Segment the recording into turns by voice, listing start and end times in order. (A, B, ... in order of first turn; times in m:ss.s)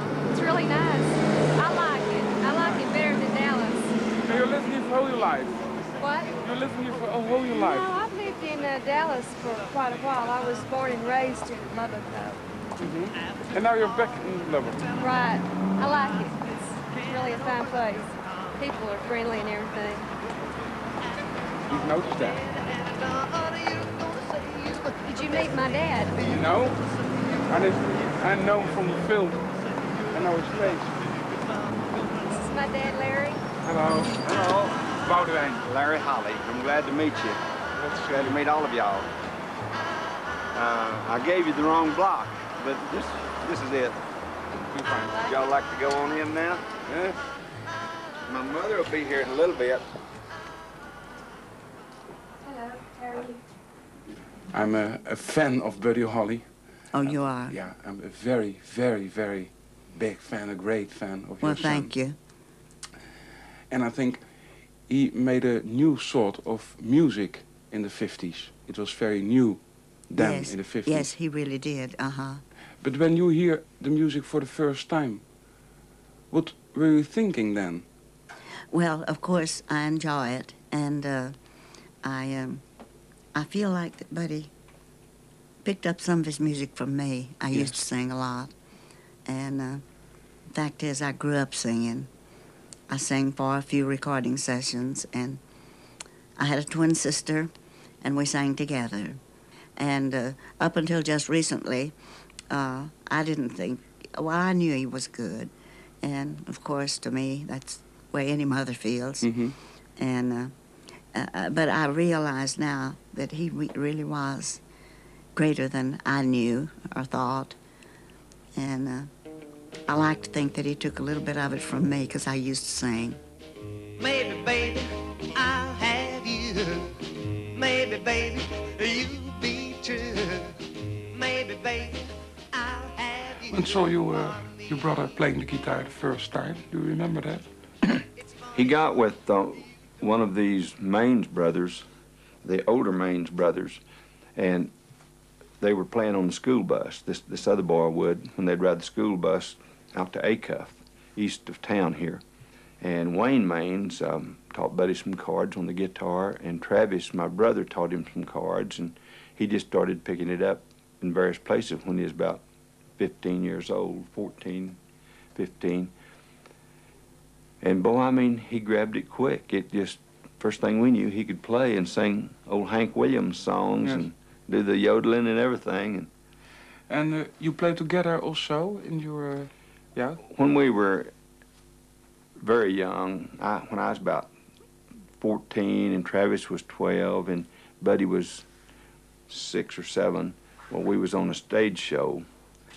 0:00.3-0:04.0 A
0:04.2-0:05.8 B
0:06.0-0:06.4 A
0:06.4-0:07.9 B
0:07.5-0:12.3 A
0:12.8-0:14.9 B
0:15.0-0:20.1 A
0:21.7-0:22.4 B
0:25.0-0:26.3 A
0:26.3-0:26.8 B
0:27.5-0:29.4 B
0:30.1-0:31.0 B
0:32.3-0:33.4 A
0:33.6-0:35.6 B
0:34.2-0:34.9 C
0:35.6-0:37.4 C
0:37.8-0:38.4 B
0:38.1-0:39.1 C
0:40.5-0:44.0 C
0:44.7-0:45.2 B
0:44.8-0:45.4 A
0:45.2-0:46.6 C
0:46.9-0:47.2 B
0:48.3-0:49.9 C
0:52.4-0:53.4 A
0:54.5-0:56.5 B
0:56.9-0:57.6 D
0:57.0-1:01.9 B
1:01.4-1:02.2 D
1:03.7-1:04.2 B
1:04.9-1:11.1 B
1:10.1-1:12.4 D
1:12.8-1:15.2 B
1:16.3-1:17.9 B
1:18.7-1:21.4 D
1:22.0-1:22.6 D
1:23.3-1:24.5 D
1:25.6-1:28.5 D
1:27.5-1:27.8 B
1:29.2-1:29.8 D
1:30.5-1:32.1 D
1:32.9-1:35.4 D
1:36.4-1:37.5 D
1:38.0-1:39.2 D
1:39.8-1:42.0 D
1:42.5-1:49.5 D
1:49.2-1:49.6 B
1:50.0-1:50.5 D
1:51.1-1:54.6 D
1:55.4-1:57.6 D
1:58.6-1:59.1 D
1:59.9-2:03.2 D
2:04.0-2:04.8 E
2:05.4-2:06.0 E
2:07.6-2:10.4 E
2:11.1-2:12.0 E
2:12.5-2:13.2 E
2:13.5-2:17.5 B
2:18.5-2:21.9 C
2:22.4-2:23.8 C
2:24.4-2:24.7 C
2:25.6-2:32.2 C
2:32.8-2:42.4 C
2:43.0-2:44.8 C
2:45.4-2:45.9 C
2:47.6-2:56.1 C
2:56.9-3:00.2 B
3:00.2-3:01.1 C
3:02.4-3:04.3 C
3:05.2-3:08.5 C
3:09.3-3:12.2 C